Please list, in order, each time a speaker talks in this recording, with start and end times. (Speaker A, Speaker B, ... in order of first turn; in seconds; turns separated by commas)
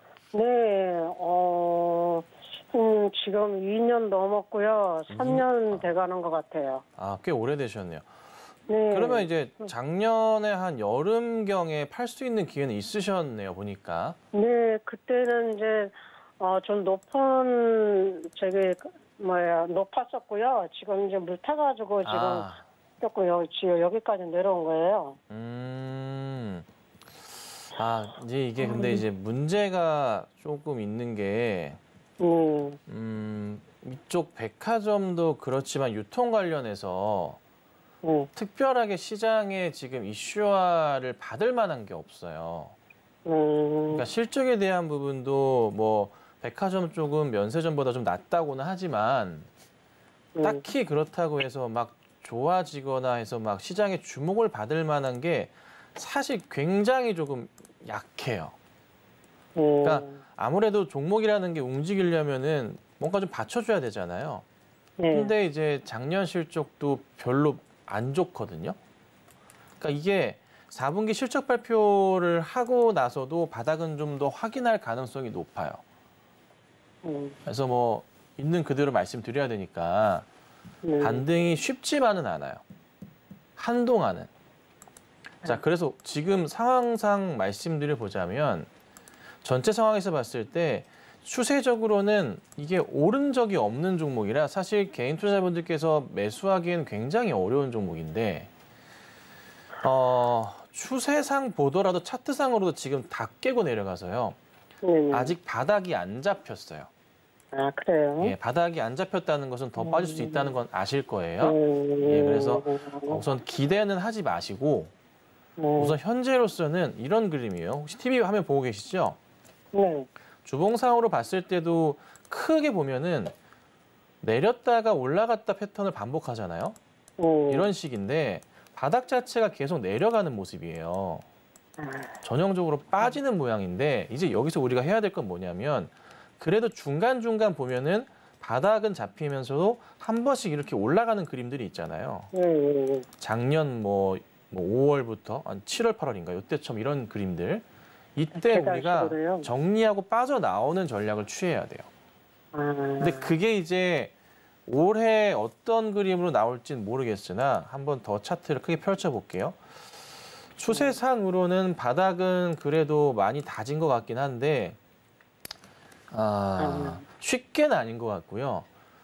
Speaker A: 0.3-6.8, Speaker B: 5.1-5.8, Speaker B: 7.0-8.1, Speaker A: 8.7-9.7, Speaker B: 8.9-14.2, Speaker A: 14.3-22.5, Speaker B: 22.0-22.6, Speaker A: 23.0-25.2, Speaker B: 25.3-26.7, Speaker B: 27.7-31.8, Speaker A: 28.6-29.0, Speaker A: 32.2-32.8, Speaker B: 32.9-37.4, Speaker A: 38.0-38.3, Speaker B: 38.4-42.8, Speaker A: 43.3-44.0, Speaker B: 43.9-49.5, Speaker A: 50.4-50.6, Speaker B: 50.4-58.5, Speaker A: 59.6-60.2, Speaker B: 59.8-64.5, Speaker A: 65.0-65.3, Speaker B: 65.1-68.8, Speaker B: 69.8-75.8, Speaker A: 77.0-77.4, Speaker B: 77.5-80.3, Speaker A: 80.8-81.2, Speaker B: 81.0-82.6, Speaker B: 83.6-84.3, Speaker B: 85.4-88.7, Speaker B: 89.4-98.5, Speaker B: 99.8-104.4, Speaker A: 104.8-105.3, Speaker B: 105.1-106.9, Speaker A: 107.5-108.3, Speaker B: 108.2-114.9, Speaker A: 109.8-110.5, Speaker A: 111.4-113.2, Speaker A: 115.6-116.0, Speaker B: 115.8-119.2, Speaker A: 119.7-120.1, Speaker B: 120.5-123.3, Speaker B: 124.2-126.8, Speaker A: 127.2-127.7, Speaker B: 127.5-131.2, Speaker A: 131.8-132.1, Speaker B: 132.2-142.3, Speaker A: 142.3-143.1, Speaker B: 143.2-151.9, Speaker A: 148.3-149.5, Speaker A: 152.5-153.3, Speaker B: 153.0-154.1, Speaker B: 154.7-159.6, Speaker B: 160.6-164.8, Speaker A: 160.7-161.0, Speaker B: 166.1-168.7, Speaker A: 166.6-167.0